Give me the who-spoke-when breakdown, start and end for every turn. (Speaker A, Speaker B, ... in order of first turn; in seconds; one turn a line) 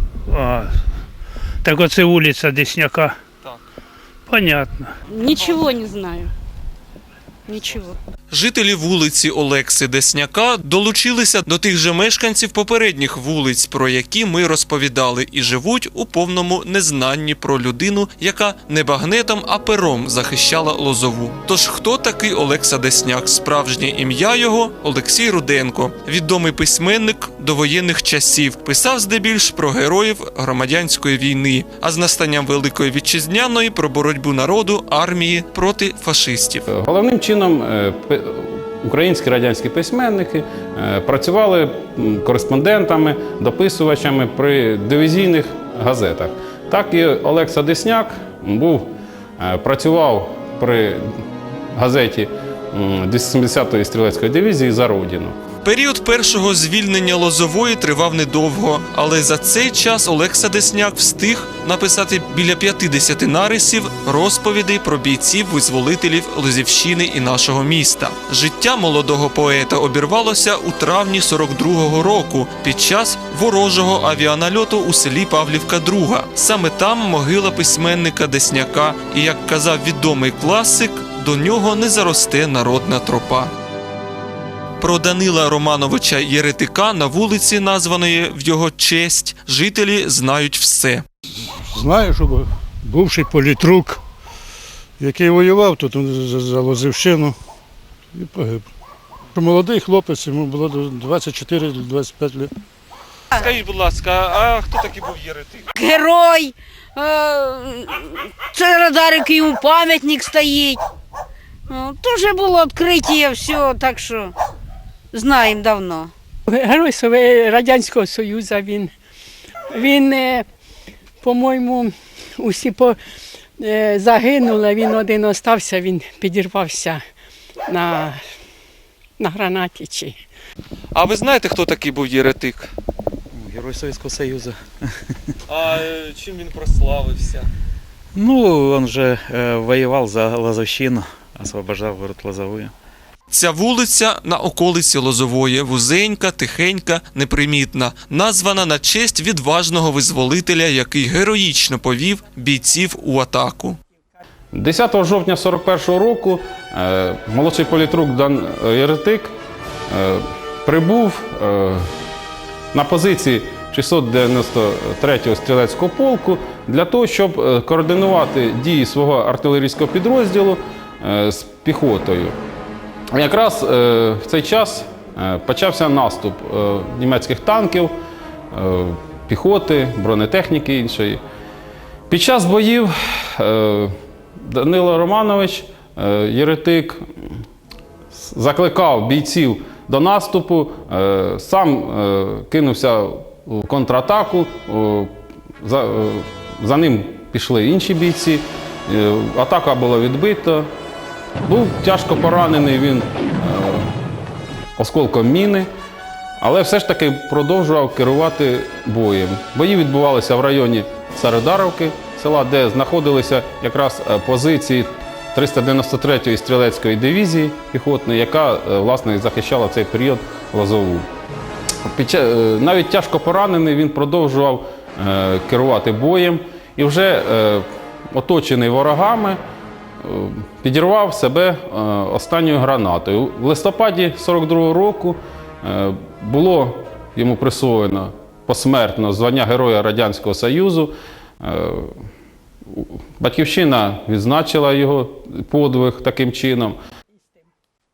Speaker A: 0.3-0.8
Speaker A: 1.6-3.2
Speaker A: 4.3-4.9
Speaker B: 5.1-6.3
Speaker B: 7.5-7.9
Speaker C: 8.3-36.7
Speaker D: 36.7-51.2
Speaker D: 51.7-55.4
Speaker C: 55.6-83.5
Speaker C: 84.8-91.0
Speaker E: 91.6-94.0
Speaker E: 95.0-97.4
Speaker E: 98.1-98.7
Speaker E: 99.3-102.5
Speaker C: 103.4-105.7
Speaker B: 105.7-110.8
Speaker B: 111.7-114.3
Speaker B: 115.1-116.1
Speaker F: 116.5-118.9
Speaker F: 119.7-120.4
Speaker F: 121.2-123.0
Speaker F: 123.6-127.0
Speaker F: 127.7-128.2
Speaker F: 129.2-130.2
Speaker C: 130.9-132.7
Speaker G: 133.3-134.7
Speaker C: 135.5-137.5
Speaker G: 138.1-142.7
Speaker C: 143.3-153.8
Speaker D: 154.5-159.3
Speaker D: 159.9-161.9
Speaker D: 162.7-172.3
Speaker D: 173.1-177.9
Speaker D: 178.5-181.2
Speaker D: 182.1-187.0
Speaker D: 188.1-200.7
Speaker D: 201.4-203.9
Speaker D: 204.8-205.7
Speaker D: 206.4-221.1
Speaker D: 221.8-229.4
Speaker D: 230.0-242.0
Speaker D: 242.7-246.8